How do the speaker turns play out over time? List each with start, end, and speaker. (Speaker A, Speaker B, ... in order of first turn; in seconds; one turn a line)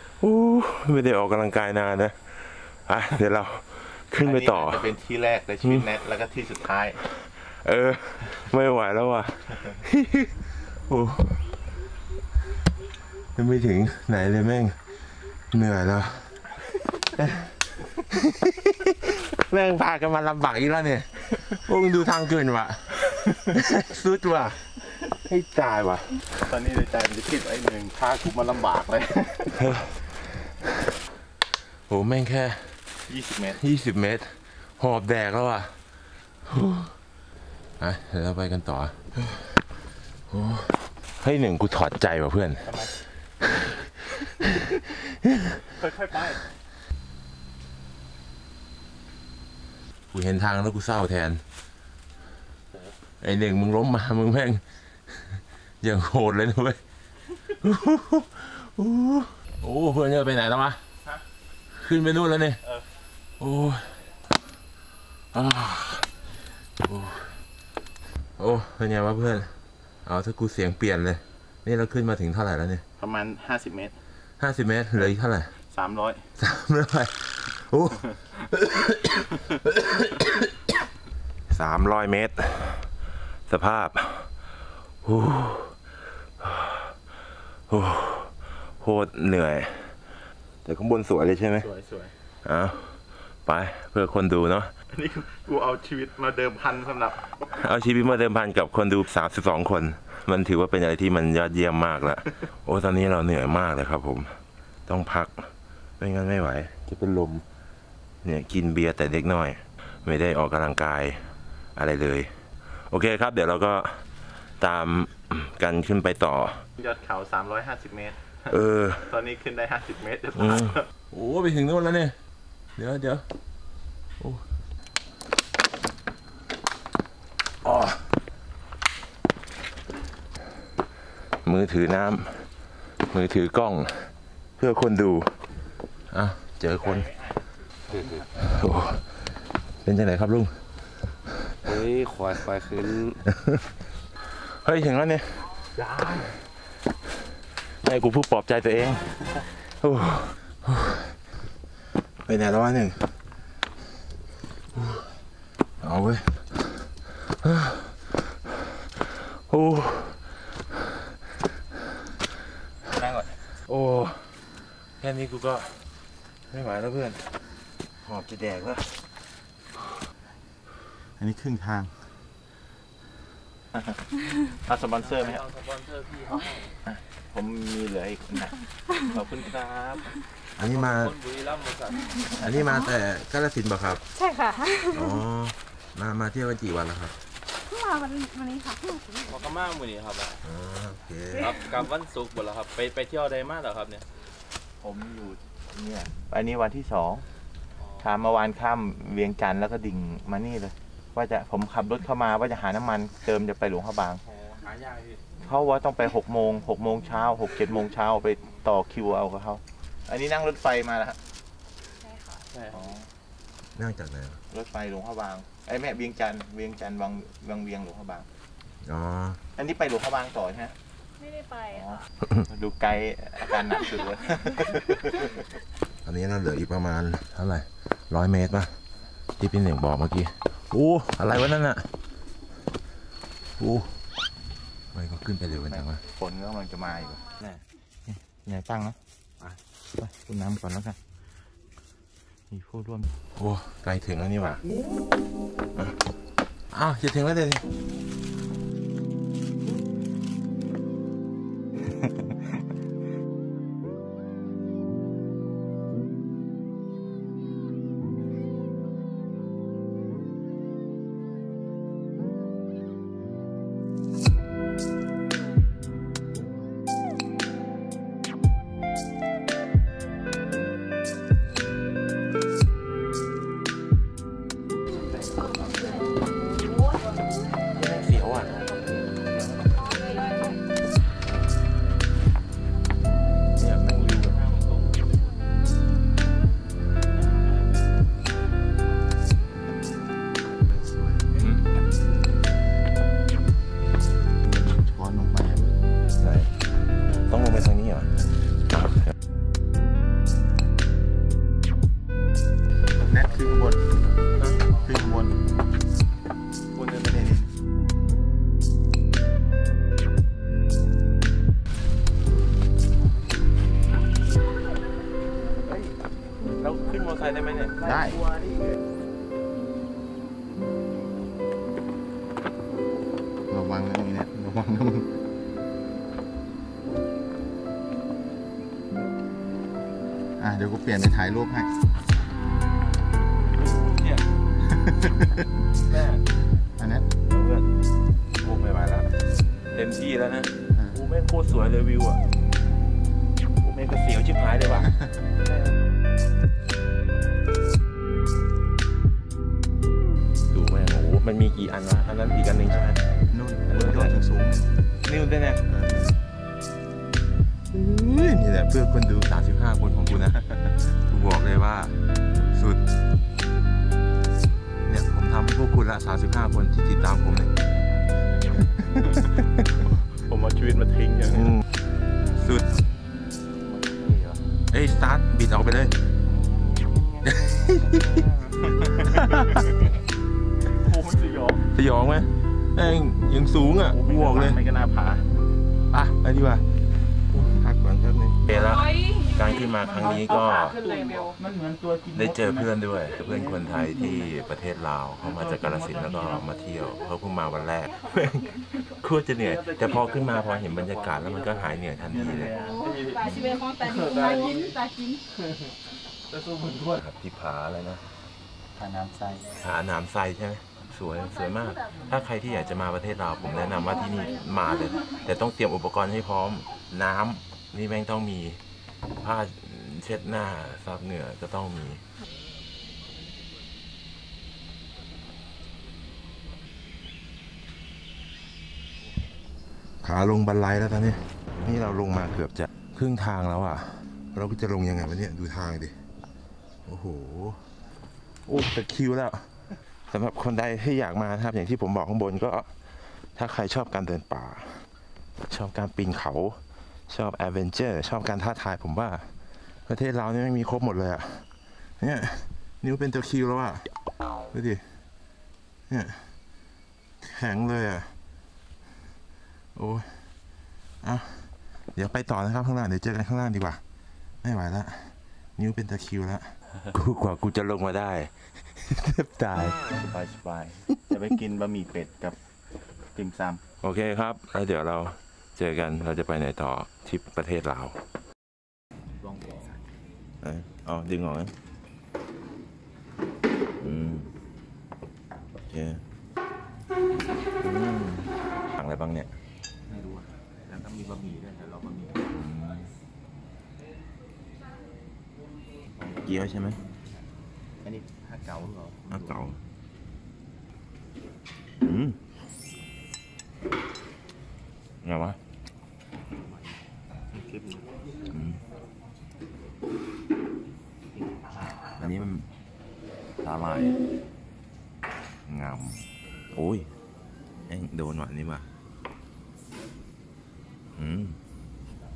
Speaker A: 0.2-4.9
Speaker B: 4.2-7.0
Speaker A: 7.2-11.6
Speaker A: 13.3-14.8
Speaker A: 15.5-16.2
Speaker A: 18.1-24.7
Speaker A: 25.2-26.2
Speaker B: 26.4-29.7
Speaker A: 29.6-30.1
Speaker A: 31.9-32.8
Speaker B: 33.1-33.6
Speaker A: 33.6-35.7
Speaker A: 36.5-36.9
Speaker A: 37.8-39.2
Speaker A: 40.3-42.8
Speaker B: 42.6-43.0
Speaker A: 44.2-45.6
Speaker B: 45.8-46.4
Speaker A: 50.1-51.4
Speaker A: 53.2-56.8
Speaker A: 57.5-60.8
Speaker A: 61.7-62.6
Speaker A: 63.4-64.0
Speaker A: 65.3-66.1
Speaker A: 66.8-67.4
Speaker A: 68.4-69.5
Speaker A: 70.0-72.8
Speaker B: 73.0-74.0
Speaker A: 74.4-75.5
Speaker B: 75.7-76.3
Speaker A: 76.4-80.5
Speaker A: 81.5-82.9
Speaker A: 83.5-84.3
Speaker A: 85.0-85.8
Speaker A: 86.4-86.9
Speaker A: 87.7-90.0
Speaker A: 90.7-91.7
Speaker B: 91.6-92.1
Speaker A: 92.4-94.7
Speaker B: 94.9-97.3
Speaker A: 97.4-107.5
Speaker A: 108.2-112.3
Speaker A: 112.9-114.0
Speaker A: 114.6-116.6
Speaker B: 116.8-120.8
Speaker A: 118.5-119.1
Speaker A: 120.4-122.2
Speaker A: 122.8-123.2
Speaker A: 124.2-124.4
Speaker A: 127.6-128.1
Speaker A: 131.4-132.5
Speaker A: 133.1-135.4
Speaker A: 136.1-137.1
Speaker B: 136.9-137.4
Speaker C: 137.9-138.2
Speaker A: 138.3-139.1
Speaker A: 139.8-140.6
Speaker C: 141.7-143.2
Speaker A: 144.4-145.7
Speaker B: 145.8-146.3
Speaker A: 147.8-151.2
Speaker A: 152.3-153.1
Speaker A: 154.7-155.2
Speaker A: 155.8-158.2
Speaker A: 159.0-160.4
Speaker B: 162.9-163.4
Speaker A: 163.6-165.9
Speaker A: 166.5-167.4
Speaker A: 168.0-169.1
Speaker B: 171.2-171.9
Speaker B: 173.7-175.5
Speaker C: 175.1-176.4
Speaker B: 176.9-180.1
Speaker A: 180.6-181.2
Speaker C: 180.7-182.0
Speaker A: 182.2-184.0
Speaker D: 184.3-184.8
Speaker A: 184.8-187.2
Speaker D: 187.7-189.2
Speaker C: 189.3-190.4
Speaker A: 190.4-191.6
Speaker C: 191.5-194.1
Speaker B: 194.8-197.3
Speaker B: 198.0-204.2
Speaker C: 204.4-205.2
Speaker B: 205.4-211.2
Speaker D: 212.1-212.4
Speaker B: 212.7-213.1
Speaker A: 213.8-214.4
Speaker B: 214.5-218.3
Speaker A: 218.8-219.4
Speaker B: 219.6-220.8
Speaker D: 221.2-221.7
Speaker B: 221.7-225.4
Speaker A: 226.0-228.8
Speaker A: 229.4-231.9
Speaker A: 233.6-233.9
Speaker A: 234.9-236.0
Speaker B: 235.7-237.3
Speaker B: 238.1-239.0
Speaker B: 240.0-241.0
Speaker B: 242.5-243.2
Speaker A: 243.3-244.6
Speaker A: 246.7-247.7
Speaker A: 277.7-278.6
Speaker A: 283.6-284.5
Speaker B: 290.6-291.4
Speaker A: 291.4-291.6
Speaker B: 294.4-295.8
Speaker A: 296.2-296.5
Speaker A: 297.3-298.2
Speaker A: 298.7-299.1
Speaker B: 303.0-303.8
Speaker B: 304.8-305.4
Speaker B: 307.0-307.5
Speaker A: 315.7-316.0
Speaker A: 316.6-318.4
Speaker B: 317.8-318.2
Speaker B: 323.5-325.1
Speaker B: 330.4-331.7
Speaker A: 333.5-334.2
Speaker B: 334.7-335.5
Speaker A: 335.8-336.3
Speaker B: 336.8-337.1
Speaker A: 337.2-337.7
Speaker A: 338.4-339.2
Speaker A: 339.7-342.2
Speaker B: 340.8-341.0
Speaker A: 343.6-344.9
Speaker A: 345.4-345.7
Speaker A: 350.5-353.0
Speaker B: 353.3-354.7
Speaker A: 353.7-354.2
Speaker A: 355.0-355.6
Speaker B: 355.7-356.2
Speaker A: 357.7-360.4
Speaker B: 360.4-360.7
Speaker A: 361.1-362.8
Speaker A: 364.9-367.5
Speaker B: 368.8-369.2
Speaker B: 370.1-371.5
Speaker A: 371.3-371.6
Speaker A: 372.4-372.8
Speaker B: 373.6-374.5
Speaker A: 374.7-375.9
Speaker B: 376.2-379.6
Speaker A: 377.3-378.1
Speaker B: 380.8-381.6
Speaker A: 381.7-384.6
Speaker B: 383.9-385.3
Speaker A: 385.9-386.6
Speaker A: 387.3-390.8
Speaker B: 391.0-392.2
Speaker A: 392.1-403.6
Speaker B: 402.7-402.9
Speaker D: 402.9-405.2
Speaker C: 404.1-404.3
Speaker C: 406.5-406.8
Speaker A: 406.8-408.0
Speaker B: 408.8-409.6
Speaker A: 409.6-418.6
Speaker A: 419.2-422.0
Speaker A: 430.0-436.0
Speaker A: 436.9-437.7
Speaker A: 438.5-439.5
Speaker A: 440.1-444.8
Speaker A: 445.5-449.3
Speaker A: 449.9-451.5
Speaker A: 452.0-453.9
Speaker A: 454.5-454.9
Speaker A: 455.9-456.3
Speaker A: 457.2-458.1
Speaker A: 459.8-460.3
Speaker A: 461.0-463.8
Speaker A: 464.4-469.9
Speaker B: 469.9-472.4
Speaker B: 473.1-473.6
Speaker A: 473.8-478.0
Speaker B: 479.2-479.9
Speaker A: 480.4-481.5
Speaker A: 483.8-484.3
Speaker A: 485.7-486.0
Speaker A: 487.6-489.3
Speaker B: 489.9-492.2
Speaker A: 492.3-492.9
Speaker A: 496.2-496.8
Speaker B: 497.8-499.5
Speaker A: 499.1-499.6
Speaker A: 501.8-502.2
Speaker A: 505.0-505.4
Speaker B: 507.3-507.9
Speaker A: 508.3-508.6
Speaker B: 511.5-512.1
Speaker A: 512.0-512.5
Speaker A: 513.4-514.0
Speaker A: 515.5-516.9
Speaker A: 517.7-518.7
Speaker A: 521.0-521.4